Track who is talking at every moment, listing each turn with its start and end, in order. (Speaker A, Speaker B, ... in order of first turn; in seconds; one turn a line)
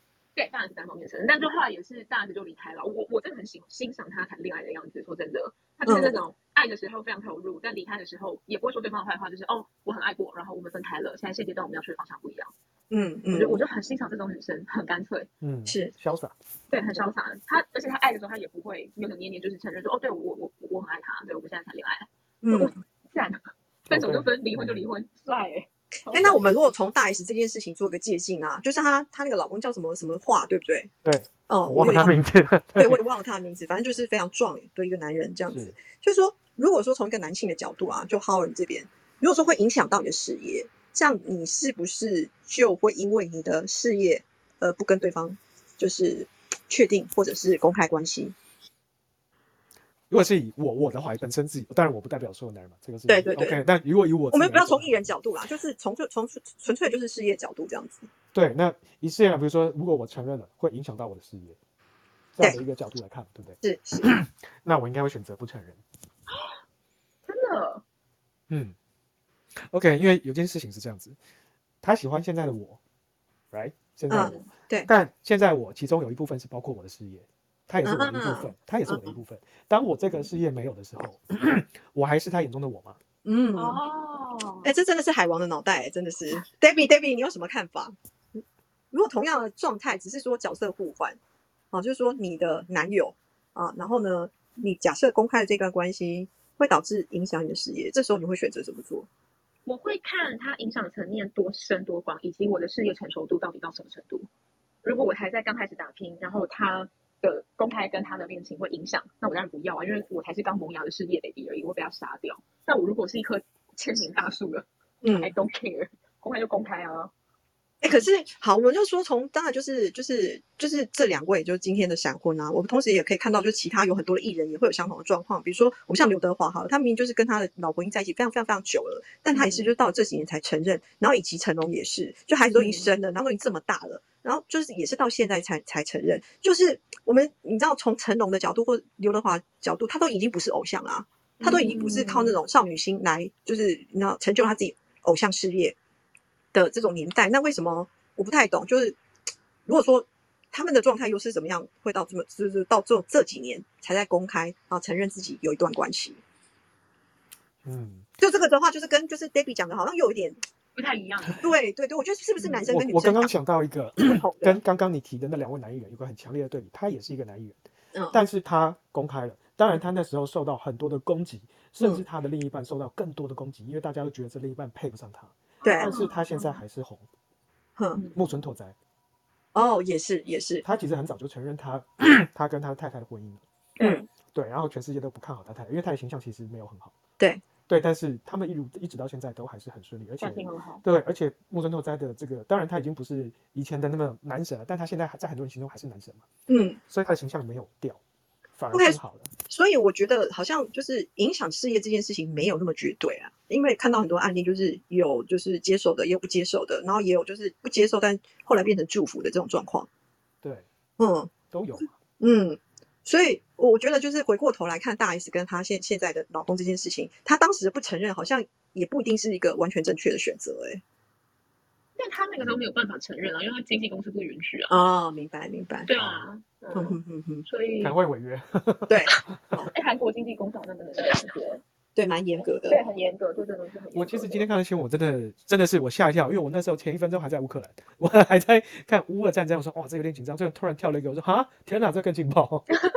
Speaker A: 0.3-12.5
Speaker B: 5.8-6.2
Speaker B: 12.9-13.6
Speaker A: 13.3-15.3
Speaker C: 15.4-16.3
Speaker B: 15.7-15.9
Speaker A: 16.7-26.7
Speaker B: 22.4-22.7
Speaker C: 23.9-24.8
Speaker B: 26.1-30.9
Speaker C: 31.0-33.0
Speaker B: 31.5-32.1
Speaker B: 32.8-48.3
Speaker C: 50.1-54.9
Speaker B: 53.1-53.6
Speaker B: 54.3-58.1
Speaker C: 58.3-61.6
Speaker C: 62.3-65.8
Speaker B: 63.6-64.1
Speaker A: 67.3-67.8
Speaker C: 68.5-68.7
Speaker C: 69.5-71.2
Speaker C: 71.8-72.8
Speaker C: 73.5-83.0
Speaker B: 74.1-74.9
Speaker A: 74.1-74.5
Speaker B: 77.8-79.1
Speaker B: 83.2-83.8
Speaker A: 83.5-84.7
Speaker B: 84.6-88.4
Speaker B: 88.9-91.2
Speaker B: 91.7-99.1
Speaker A: 99.7-104.2
Speaker A: 104.8-117.1
Speaker B: 115.0-115.3
Speaker B: 117.8-145.8
Speaker A: 129.3-129.7
Speaker A: 132.5-132.9
Speaker A: 141.4-142.4
Speaker B: 146.5-149.0
Speaker B: 149.7-156.2
Speaker C: 157.6-158.1
Speaker B: 158.2-160.4
Speaker A: 160.8-161.5
Speaker B: 161.4-163.3
Speaker A: 162.4-162.6
Speaker C: 162.7-167.6
Speaker B: 164.0-164.6
Speaker B: 167.9-168.2
Speaker C: 168.1-177.1
Speaker A: 175.6-176.6
Speaker B: 175.6-175.9
Speaker B: 177.8-178.0
Speaker A: 177.9-178.2
Speaker C: 178.1-178.8
Speaker B: 179.5-180.6
Speaker C: 180.6-183.4
Speaker A: 183.8-184.0
Speaker B: 183.8-184.0
Speaker C: 184.3-186.9
Speaker C: 187.7-196.2
Speaker A: 190.2-190.8
Speaker B: 196.5-196.8
Speaker C: 196.9-198.0
Speaker C: 198.5-199.3
Speaker B: 198.7-199.0
Speaker B: 199.5-209.9
Speaker C: 210.4-210.7
Speaker B: 211.0-211.3
Speaker C: 211.5-211.9
Speaker B: 212.2-220.8
Speaker A: 222.0-224.8
Speaker B: 224.7-225.9
Speaker A: 225.8-227.9
Speaker C: 225.9-226.3
Speaker B: 226.7-227.4
Speaker C: 227.8-229.1
Speaker B: 228.9-229.7
Speaker A: 229.6-231.6
Speaker B: 231.9-232.8
Speaker A: 232.4-234.5
Speaker C: 233.9-242.7